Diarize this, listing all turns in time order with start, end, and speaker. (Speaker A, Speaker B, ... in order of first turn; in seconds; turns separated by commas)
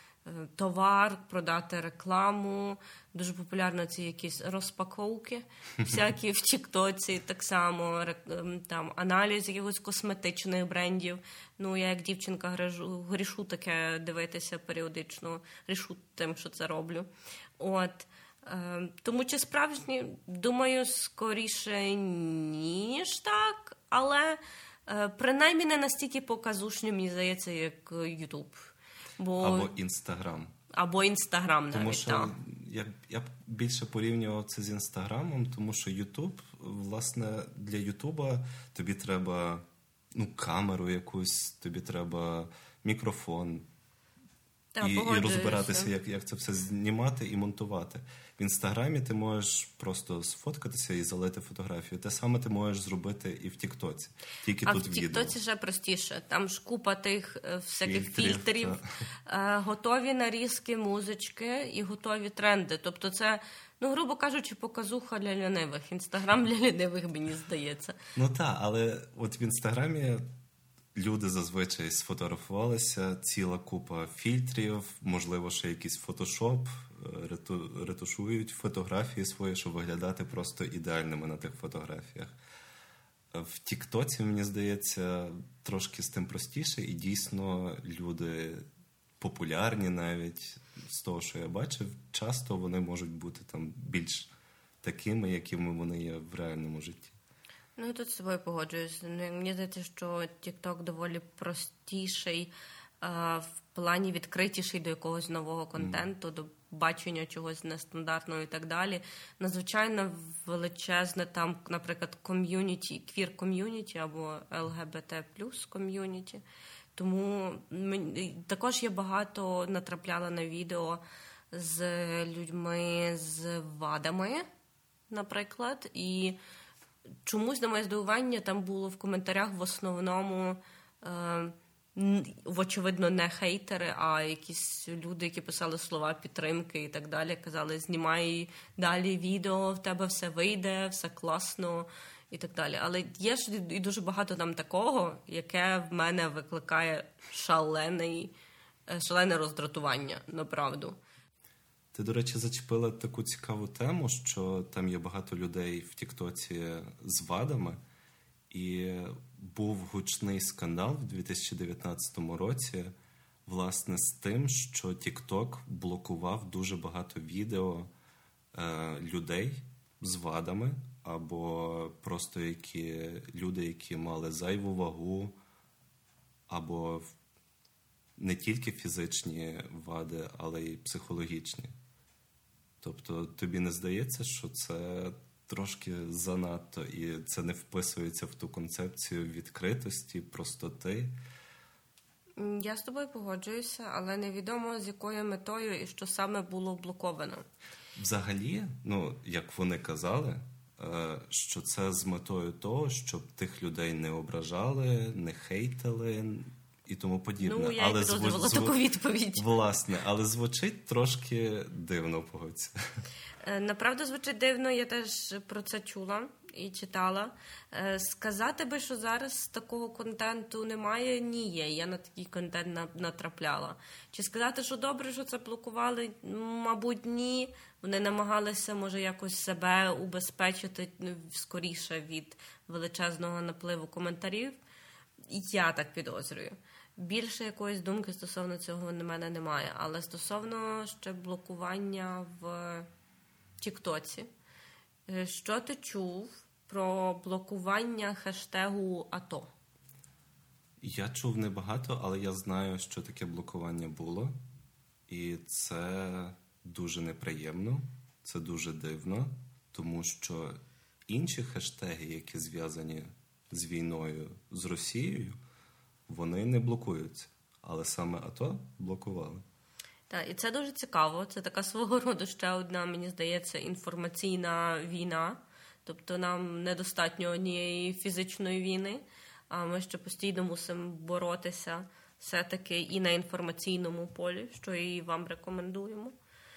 Speaker A: 0.2-29.7, Speaker B: 29.4-30.5, Speaker A: 30.7-32.3, Speaker B: 31.7-43.6, Speaker A: 44.7-45.9, Speaker B: 44.8-55.4, Speaker A: 54.6-68.0, Speaker B: 57.9-58.8, Speaker B: 68.2-70.2, Speaker B: 70.9-82.3, Speaker B: 83.3-88.7, Speaker B: 89.2-94.3, Speaker B: 94.8-97.1, Speaker A: 97.8-116.4, Speaker B: 105.8-106.0, Speaker A: 117.0-124.5, Speaker A: 125.1-126.4, Speaker A: 127.2-148.3, Speaker A: 148.9-151.0, Speaker B: 151.9-157.8, Speaker B: 158.5-162.9, Speaker B: 163.4-167.9, Speaker B: 168.5-175.3, Speaker B: 176.5-177.1, Speaker B: 178.2-181.8, Speaker B: 182.8-191.1, Speaker A: 192.4-197.4, Speaker B: 197.9-208.8, Speaker A: 207.4-209.5, Speaker B: 209.4-212.7, Speaker A: 213.4-234.6, Speaker A: 235.3-242.9, Speaker A: 243.6-244.3, Speaker A: 245.1-249.5, Speaker B: 250.8-254.3, Speaker B: 255.1-265.4, Speaker B: 266.1-269.4, Speaker A: 270.1-286.1